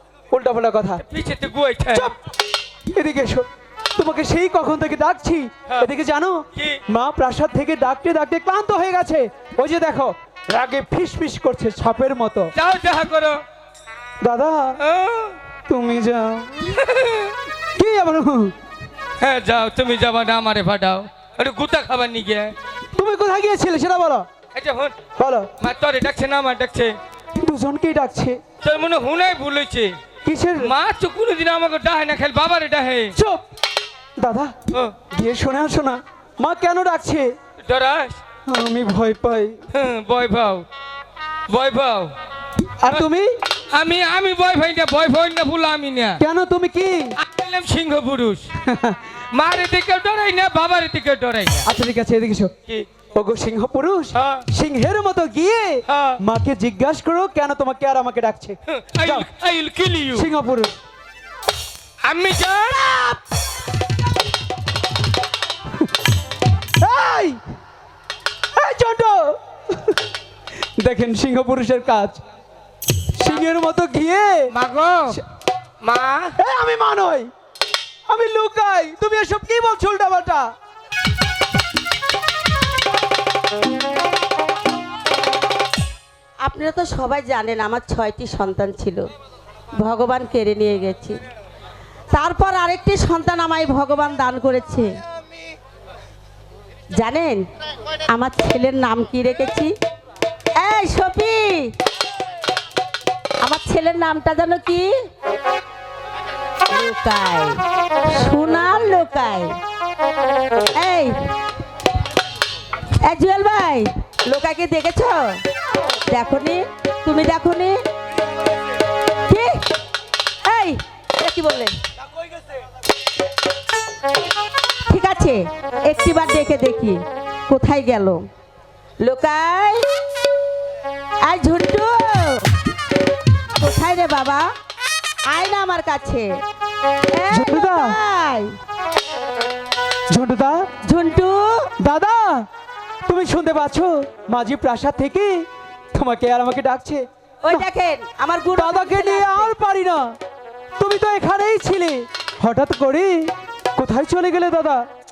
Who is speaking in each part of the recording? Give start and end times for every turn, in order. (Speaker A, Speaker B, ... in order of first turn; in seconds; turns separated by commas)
Speaker A: 0.3-1.0, Speaker B: 1.0-2.1, Speaker A: 2.9-12.5, Speaker B: 6.5-6.8, Speaker B: 12.6-13.4, Speaker A: 14.2-14.8, Speaker B: 14.8-15.4, Speaker A: 15.7-16.6, Speaker B: 16.7-17.4, Speaker A: 17.8-18.5, Speaker B: 19.2-22.6, Speaker A: 23.0-24.2, Speaker B: 24.5-24.9, Speaker A: 25.2-25.5, Speaker B: 25.6-27.0, Speaker A: 27.4-28.4, Speaker B: 28.6-30.0, Speaker A: 30.2-30.7, Speaker B: 30.6-33.1, Speaker A: 33.2-33.4, Speaker A: 34.2-34.5, Speaker B: 34.7-35.0, Speaker A: 35.1-37.3, Speaker B: 37.6-38.2, Speaker A: 38.5-39.6, Speaker B: 39.7-40.7, Speaker B: 41.5-42.1, Speaker A: 42.8-43.3, Speaker B: 43.7-46.2, Speaker A: 46.2-47.1, Speaker B: 47.2-48.5, Speaker A: 48.6-49.0, Speaker B: 49.3-51.7, Speaker A: 51.6-52.5, Speaker A: 53.1-59.3, Speaker B: 54.1-54.5, Speaker B: 55.9-56.2, Speaker B: 58.7-60.3, Speaker A: 60.1-60.8, Speaker B: 62.0-63.2, Speaker A: 66.8-67.4, Speaker A: 68.5-70.0, Speaker A: 70.8-72.2, Speaker A: 73.2-74.5, Speaker B: 74.5-75.2, Speaker B: 75.8-76.3, Speaker A: 76.4-77.3, Speaker A: 78.1-80.5, Speaker C: 86.4-89.1, Speaker C: 89.8-91.2, Speaker C: 92.1-94.9, Speaker C: 97.0-97.4, Speaker C: 98.1-99.7, Speaker C: 100.6-101.7, Speaker C: 103.4-104.9, Speaker C: 106.7-109.6, Speaker C: 110.7-111.1, Speaker C: 113.0-115.4, Speaker C: 116.1-117.8, Speaker C: 119.3-119.5, Speaker C: 120.4-121.7, Speaker C: 124.9-128.2, Speaker C: 129.0-129.9, Speaker C: 131.2-132.5, Speaker C: 133.6-134.5, Speaker C: 135.2-136.4, Speaker C: 137.1-138.6, Speaker A: 137.3-138.0, Speaker A: 140.1-140.7, Speaker C: 140.8-141.7, Speaker A: 141.8-142.5, Speaker A: 143.1-147.7, Speaker C: 147.4-149.5, Speaker A: 148.6-150.1, Speaker A: 150.8-154.8